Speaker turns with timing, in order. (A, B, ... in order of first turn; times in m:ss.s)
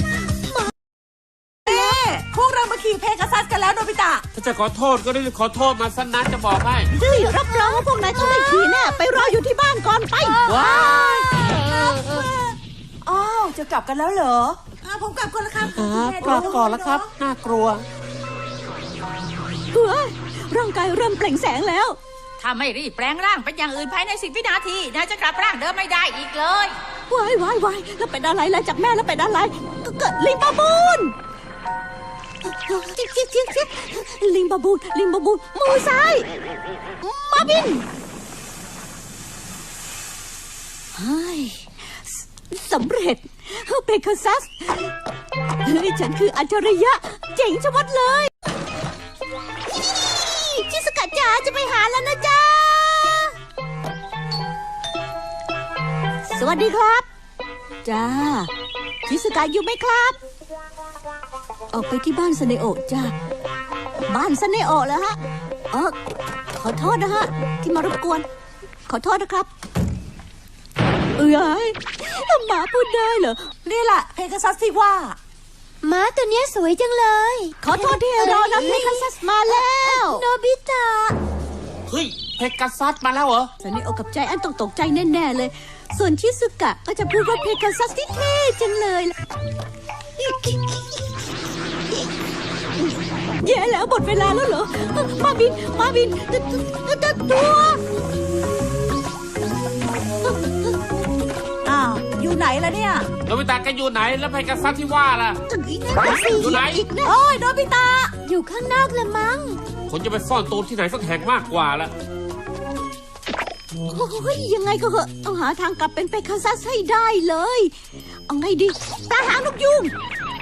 0:01.6-0:04.2 A
0:01.7-0:01.9 B
0:04.3-0:06.9 C
0:06.9-0:11.3 B
0:07.2-0:08.5 D
0:10.4-0:17.1 A
0:10.5-0:12.2 C
0:15.6-0:17.8 C
0:19.7-0:22.0 B
0:22.4-0:26.8 E
0:27.1-0:31.2 B
0:32.5-0:36.3 B
0:37.0-0:37.8 B
0:41.0-0:45.0 B
0:45.6-0:48.3 B
0:49.8-0:53.4 B
0:56.2-0:57.1 B
0:57.8-0:58.5 B
0:59.1-1:00.2 B
1:01.7-1:03.1 B
1:04.1-1:05.2 B
1:06.6-1:08.3 B
1:08.9-1:09.5 B
1:11.2-1:13.5 B
1:13.6-1:15.2 A
1:15.8-1:21.2 D
1:17.6-1:20.2 B
1:21.9-1:23.5 C
1:23.6-1:29.2 B
1:30.2-1:31.1 B
1:33.4-1:37.8 B
1:40.2-1:40.7 B
1:41.6-1:43.1 A
1:43.3-1:45.4 C
1:45.5-1:47.2 B
1:46.0-1:46.6 D
1:46.4-1:46.9 C
1:47.0-1:48.2 A
1:48.2-1:49.6 D
1:49.9-1:51.9 C
1:53.9-1:57.7 B
1:58.3-1:59.9 B